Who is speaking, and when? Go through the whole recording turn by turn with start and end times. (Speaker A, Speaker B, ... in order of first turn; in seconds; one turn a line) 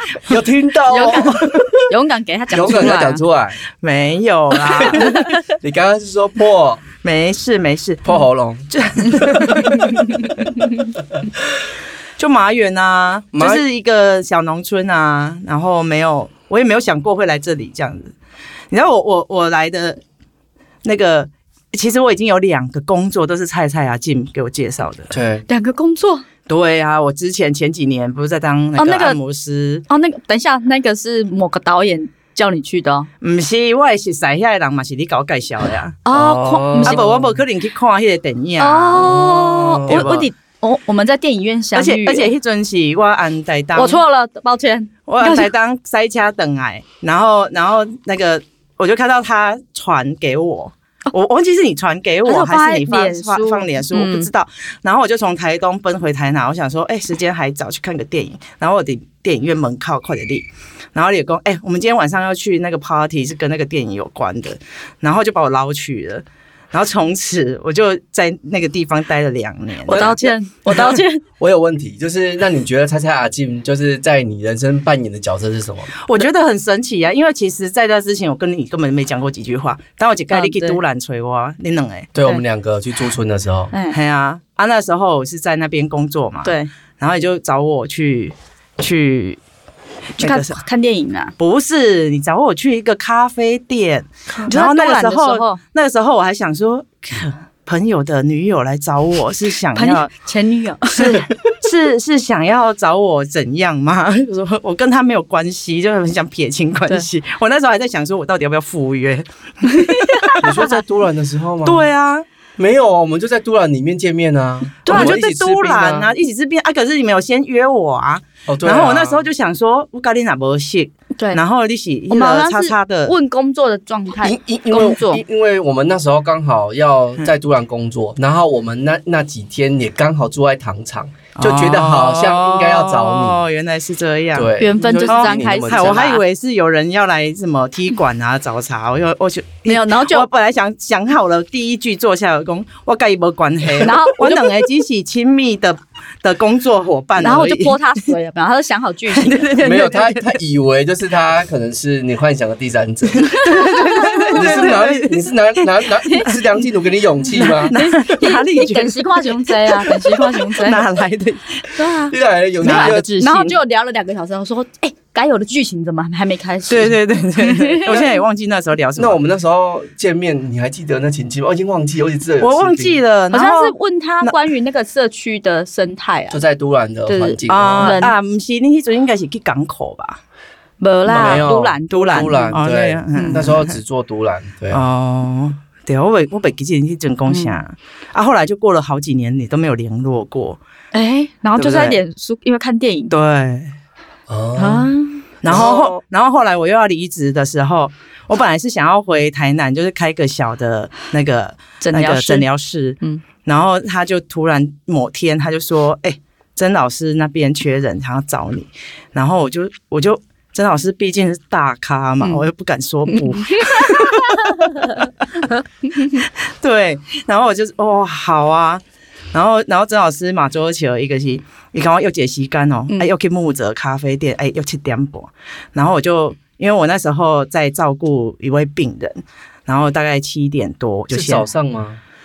Speaker A: 0.2-1.9
Speaker B: 0.9-3.2
Speaker A: 2.5-3.6
Speaker C: 3.8-5.3
Speaker B: 4.9-5.4
Speaker A: 5.0-6.8
Speaker C: 7.0-8.1
Speaker A: 8.1-10.0
Speaker C: 8.7-10.6
Speaker C: 12.2-18.1
Speaker A: 13.3-13.6
Speaker C: 18.7-20.0
Speaker C: 20.8-25.1
Speaker A: 25.1-25.4
Speaker B: 25.5-26.2
Speaker C: 26.5-29.8
Speaker B: 28.8-29.2
Speaker B: 29.9-33.1
Speaker C: 33.2-36.0
Speaker B: 36.1-37.1
Speaker A: 36.1-37.4
Speaker C: 36.8-39.2
Speaker B: 38.6-42.3
Speaker A: 39.0-40.1
Speaker C: 39.9-40.3
Speaker C: 41.7-44.0
Speaker B: 43.8-45.5
Speaker C: 45.1-70.3
Speaker B: 52.2-54.3
Speaker B: 69.9-71.2
Speaker A: 69.9-75.9
Speaker C: 76.0-82.1
Speaker B: 80.3-80.8
Speaker A: 82.1-83.7
Speaker C: 83.9-89.4
Speaker B: 86.5-86.7
Speaker C: 90.2-90.6
Speaker B: 90.2-91.3
Speaker C: 91.4-100.1
Speaker B: 94.5-95.6
Speaker B: 99.8-101.2
Speaker C: 100.9-110.5
Speaker B: 109.8-110.7
Speaker A: 110.4-111.8
Speaker C: 111.7-112.2
Speaker A: 112.6-116.1
Speaker C: 114.8-123.1
Speaker B: 114.9-115.2
Speaker A: 118.5-119.2
Speaker B: 122.1-125.2
Speaker A: 124.2-133.4
Speaker C: 131.4-147.8
Speaker A: 134.3-136.2
Speaker B: 134.6-136.2
Speaker B: 139.7-140.3
Speaker B: 143.8-144.7
Speaker B: 147.2-149.9
Speaker C: 149.1-150.3
Speaker A: 149.6-153.4
Speaker C: 153.3-155.7
Speaker A: 154.3-157.8
Speaker C: 157.3-161.8
Speaker B: 157.7-160.8
Speaker B: 161.8-162.1
Speaker A: 162.0-163.1
Speaker C: 162.6-163.6
Speaker B: 162.6-168.2
Speaker C: 166.7-169.2
Speaker A: 169.0-173.0
Speaker C: 172.4-174.4
Speaker B: 173.3-176.4
Speaker A: 176.3-178.0
Speaker B: 177.1-178.1
Speaker C: 177.5-180.2
Speaker B: 180.8-182.6
Speaker A: 181.1-184.8
Speaker C: 181.1-183.8
Speaker B: 183.2-183.5
Speaker C: 184.7-190.6
Speaker B: 187.3-187.6
Speaker B: 190.9-193.1
Speaker C: 191.6-192.0
Speaker C: 193.1-193.7
Speaker A: 194.3-194.9
Speaker C: 194.6-218.8
Speaker B: 194.6-194.9
Speaker A: 195.5-196.0
Speaker B: 201.8-202.5
Speaker B: 213.1-215.0
Speaker C: 219.3-231.5
Speaker A: 231.1-232.0